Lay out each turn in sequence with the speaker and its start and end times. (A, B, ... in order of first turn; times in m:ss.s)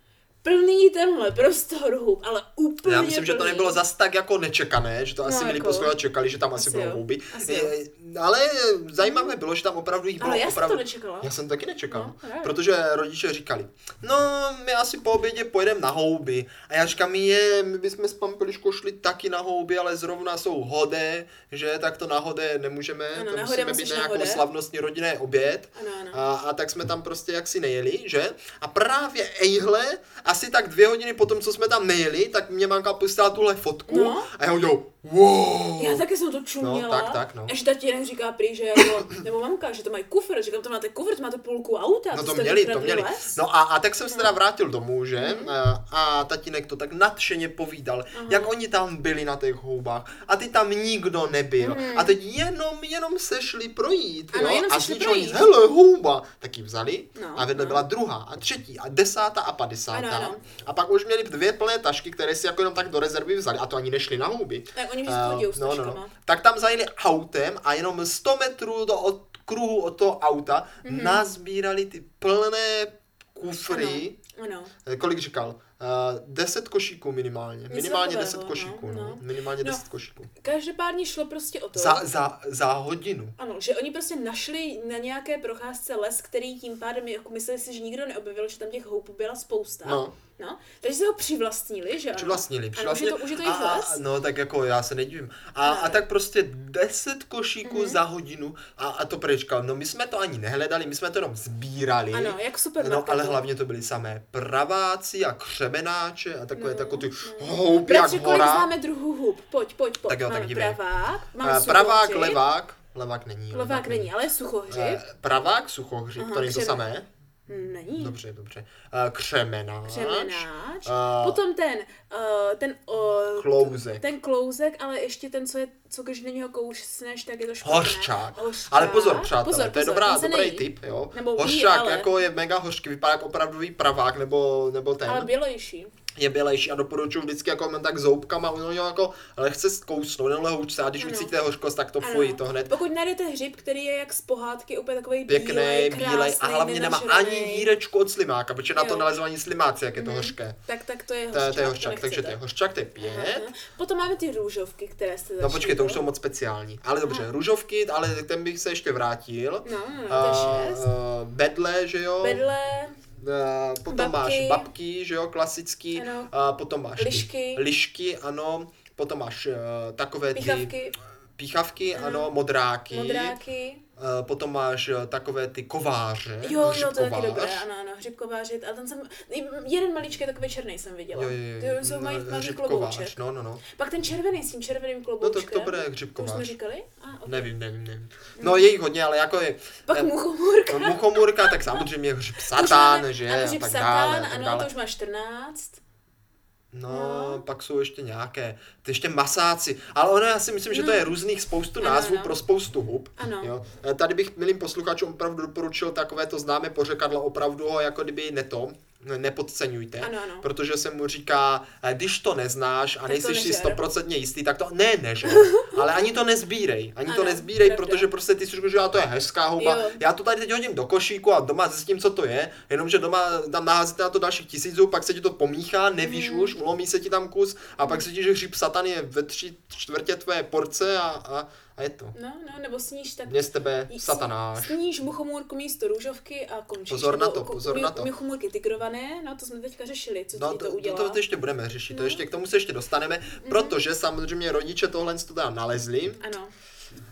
0:00.4-0:03.8 A
0:02.8-0:36.0 B
0:05.2-0:05.9 A
0:06.6-0:07.7 A
0:09.0-0:09.3 A
0:10.2-0:11.3 A
0:11.9-0:12.6 A
0:23.1-0:24.4 A
0:25.8-0:26.2 A
0:33.9-0:34.3 A
0:35.8-0:43.4 A
0:36.6-0:37.5 B
0:42.1-1:14.2 B
0:45.2-0:45.5 A
0:48.1-0:48.6 A
0:51.6-0:52.1 A
0:54.3-0:55.5 A
0:57.2-0:57.8 A
0:59.9-1:00.4 A
1:04.8-1:06.1 A
1:10.8-1:11.2 A
1:13.7-1:14.7 A
1:14.9-1:20.3 B
1:17.7-1:19.8 A
1:20.4-1:22.0 A
1:21.7-1:23.4 B
1:23.4-1:34.0 A
1:29.8-1:30.1 B
1:32.2-1:48.7 B
1:35.6-1:36.0 A
1:37.6-1:38.0 A
1:42.1-1:43.4 A
1:46.6-1:52.4 A
1:50.1-1:50.8 B
1:51.4-1:54.1 B
1:53.5-1:55.0 A
1:54.7-1:57.0 B
1:56.2-1:56.8 A
1:57.5-1:58.2 A
1:58.0-2:01.4 B
1:59.9-2:12.1 A
2:03.4-2:04.0 B
2:07.6-2:15.3 B
2:15.0-2:15.9 A
2:16.2-2:22.7 B
2:21.0-2:21.3 A
2:22.0-2:27.7 A
2:25.3-2:30.6 B
2:28.8-2:29.1 A
2:30.0-2:32.4 A
2:31.3-2:33.5 B
2:33.0-2:36.0 A
2:35.4-2:42.4 B
2:37.0-2:37.3 A
2:39.6-2:40.9 A
2:42.2-2:43.0 A
2:43.2-2:50.7 B
2:43.9-2:44.7 A
2:46.0-2:46.3 A
2:47.0-2:47.6 A
2:50.4-2:51.0 A
2:51.4-2:53.4 B
2:52.0-2:52.3 A
2:52.9-2:53.8 A
2:54.0-2:57.6 B
2:56.4-3:07.5 A
3:01.1-3:03.6 B
3:05.2-3:06.6 B
3:07.3-3:10.1 B
3:08.4-3:08.7 A
3:09.9-3:11.8 A
3:10.7-3:14.7 B
3:12.4-3:15.8 A
3:16.7-3:52.2 B
3:16.9-3:17.4 A
3:20.7-3:21.1 A
3:21.8-3:22.4 A
3:23.2-3:23.5 A
3:30.0-3:30.5 A
3:33.0-3:33.8 A
3:35.2-3:35.9 A
3:37.1-3:38.1 A
3:39.6-3:40.0 A
3:46.0-3:46.6 A
3:52.1-4:01.2 A
3:53.3-3:54.8 B
3:56.9-3:58.1 B
4:00.3-4:06.2 B
4:01.9-4:02.2 A
4:03.4-4:03.8 A
4:06.2-4:06.5 A